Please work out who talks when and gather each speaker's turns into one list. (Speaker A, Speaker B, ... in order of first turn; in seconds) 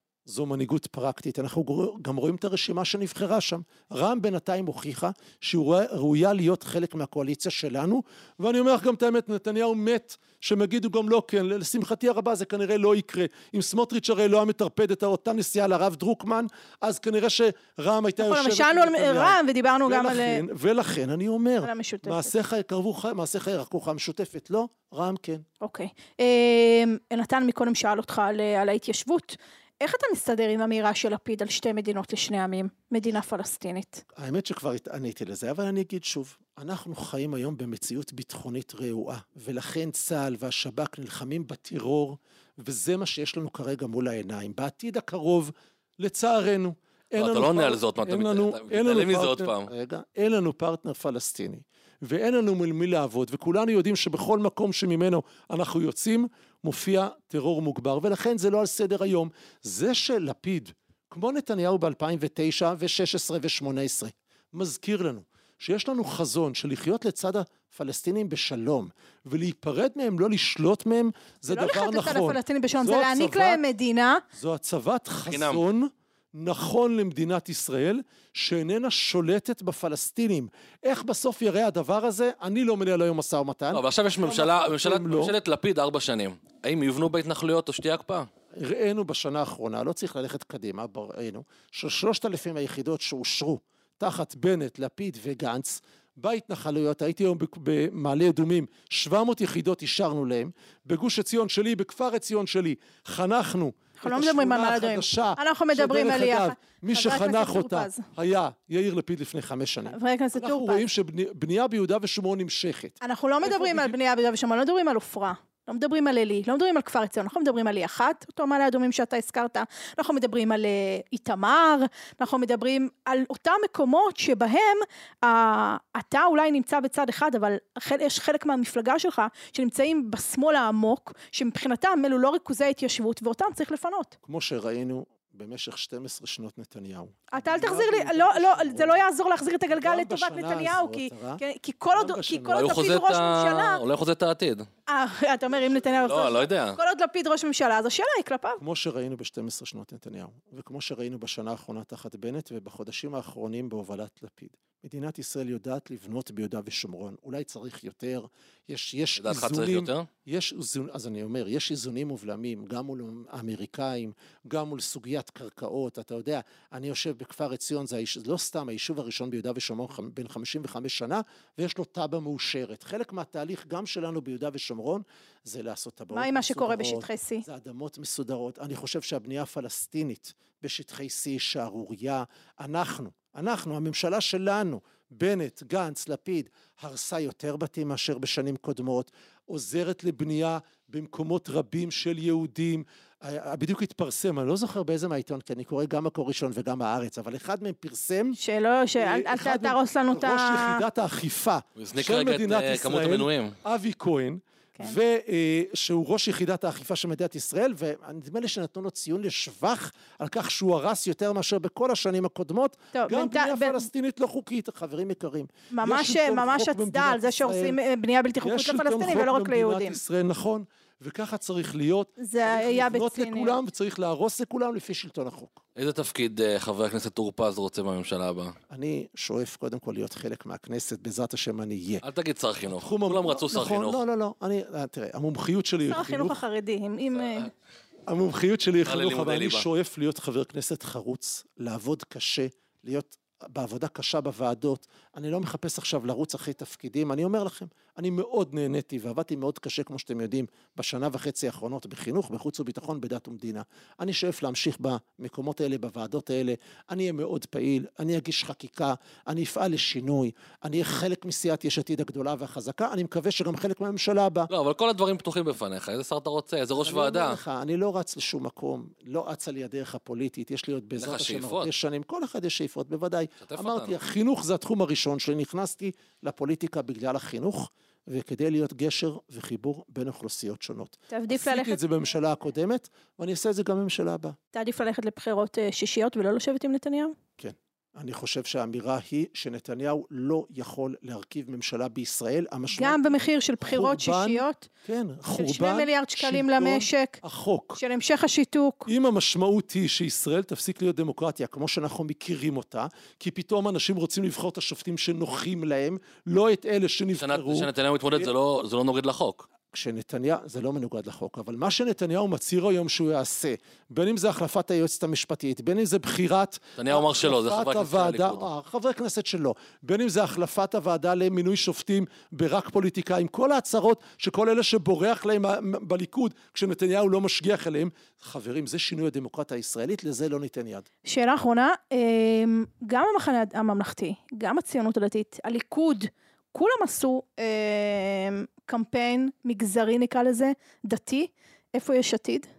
Speaker A: 0.3-25.4, 34.1-73.6, 74.3-85.3, 88.6-114.0, 134.2-139.0, 139.7-141.4, 141.9-142.7, 148.6-198.4, 199.0-217.8, 218.4-225.6, 228.7-232.0, 232.7-236.4, 238.1-264.5, 266.8-284.4, 287.4-297.8, 298.9-308.3, 309.7-330.9
Speaker B: 18.2-20.4, 21.6-22.4, 25.6-34.0, 71.5-74.2, 104.0-108.0, 109.9-110.9, 113.0-134.2, 137.3-143.8, 144.9-148.6, 176.1-177.4, 198.4-200.8, 212.9-213.9, 215.7-220.0, 222.2-223.6, 235.9-237.5, 281.1-281.8, 284.5-287.1, 292.7-294.7, 295.3-297.2, 297.8-298.9, 331.1-342.5
Speaker C: 47.2-49.7, 75.3-75.6, 83.7-88.3, 142.6-144.7, 146.0-146.8, 159.2-160.1, 201.8-203.6, 225.8-228.6, 232.0-234.0, 238.8-239.7, 264.5-267.4, 271.0-271.7, 273.4-274.0, 307.2-309.5, 316.8-318.4